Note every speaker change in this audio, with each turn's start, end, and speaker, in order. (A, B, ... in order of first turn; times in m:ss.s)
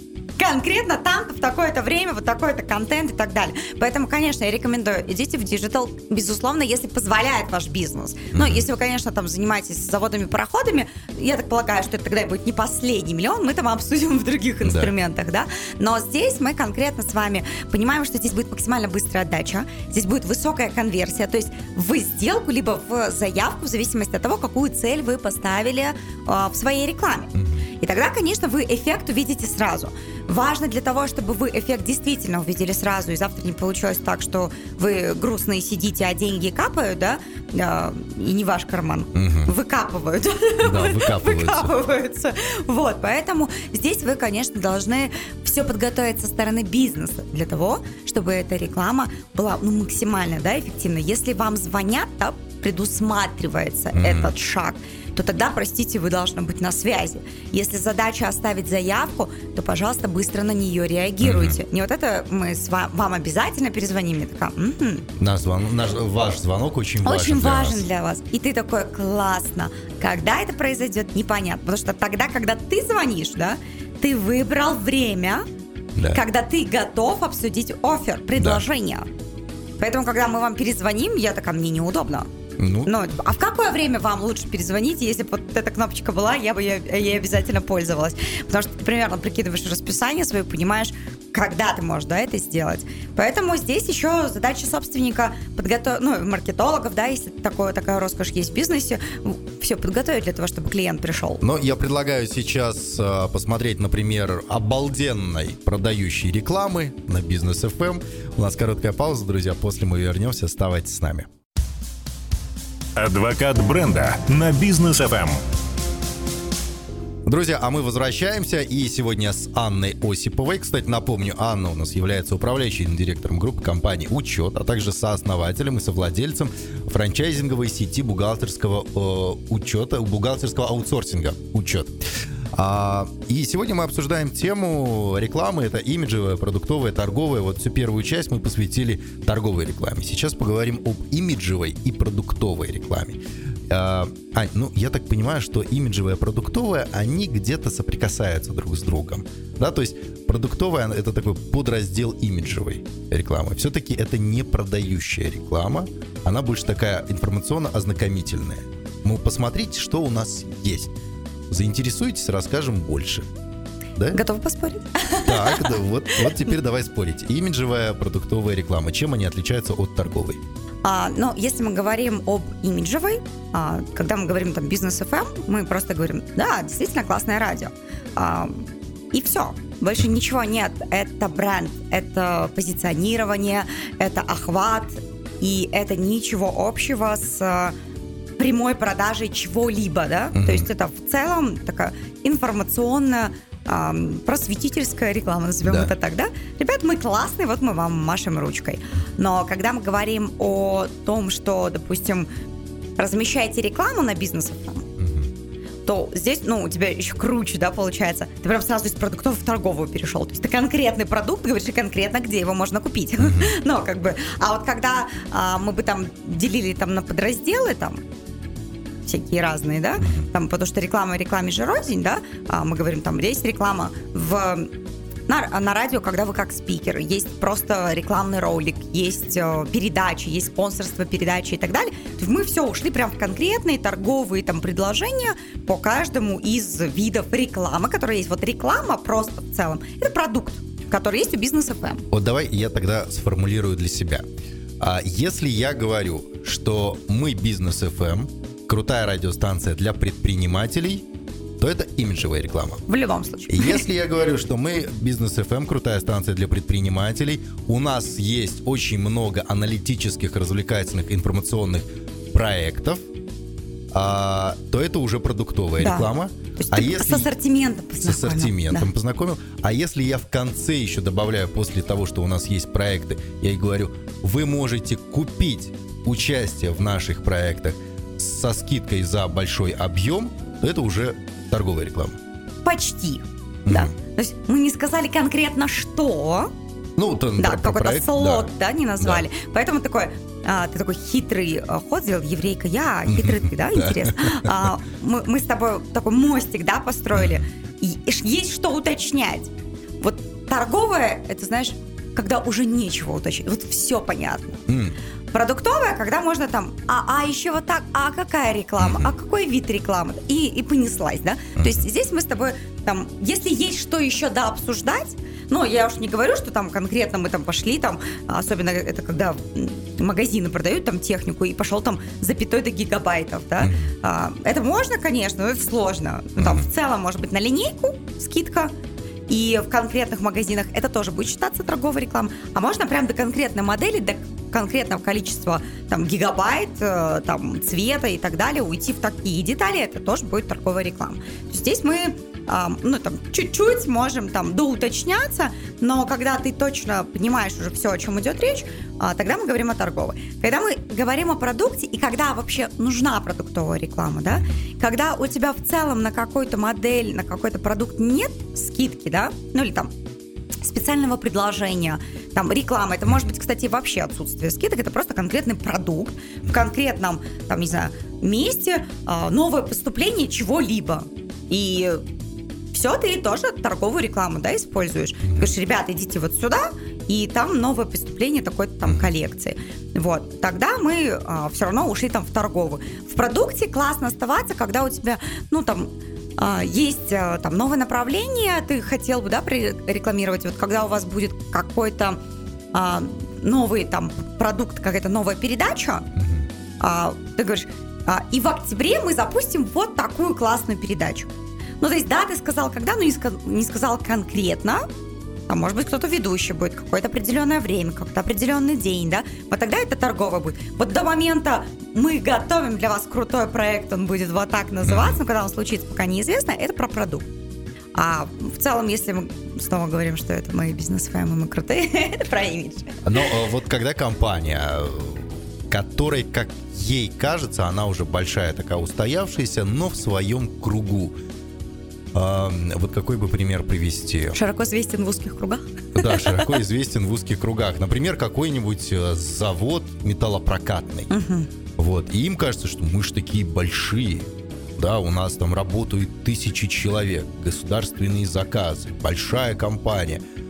0:00.4-1:05.1 A
0:08.3-0:08.6 B
0:14.6-0:14.9 B
0:39.1-0:39.5 B
0:40.6-0:41.7 B
0:53.9-0:54.3 B
1:01.2-1:01.6 B
1:05.2-1:07.8 B
1:07.0-1:15.4 A
1:16.0-1:16.2 B
1:16.1-1:19.1 A
1:18.4-1:18.6 B
1:19.8-1:22.3 A
1:22.6-1:22.9 B
1:22.8-1:41.4 A
1:41.4-1:51.3 B
1:53.0-1:55.4 C
1:57.2-2:12.0 B
2:12.5-2:40.9 B
2:41.5-2:43.2 B
2:44.1-2:45.8 A
2:45.2-2:50.4 B
2:50.8-3:07.7 A
3:08.4-3:22.3 A
3:10.3-3:10.7 B
3:15.6-3:15.9 B
3:23.0-3:24.8 A
3:25.0-3:25.3 B
3:25.8-3:38.0 A
3:33.2-3:33.5 B
3:39.0-3:44.7 A
3:45.3-4:02.0 A
4:02.1-4:04.2 B
4:04.8-4:11.0 B
4:11.6-4:12.8 B
4:12.9-4:13.9 A
4:13.5-4:23.0 B
4:23.9-4:27.3 B
4:25.8-4:28.9 A
4:28.0-4:42.2 B
4:42.6-4:46.5 A
4:43.6-4:43.9 B
4:47.0-4:48.5 B
4:47.4-5:04.6 A
4:53.1-4:54.7 B
4:57.1-4:57.4 B
5:04.7-5:04.9 B
5:05.3-5:28.7 A
5:08.8-5:09.1 B
5:11.6-5:11.8 B
5:23.6-5:23.9 B
5:26.4-5:26.6 B
5:29.3-5:59.9 A
6:00.6-6:12.0 A
6:12.7-6:32.2 A
6:32.7-6:36.1 A
6:36.2-6:36.4 B
6:36.8-6:41.3 A
6:41.8-6:44.8 A
6:45.5-6:57.3 A
6:54.8-6:55.2 B
6:57.9-7:03.3 A
7:03.0-7:11.2 B
7:12.1-7:14.4 B
7:14.3-7:16.6 A
7:15.9-7:21.1 B
7:21.1-7:21.5 A
7:21.8-7:30.2 B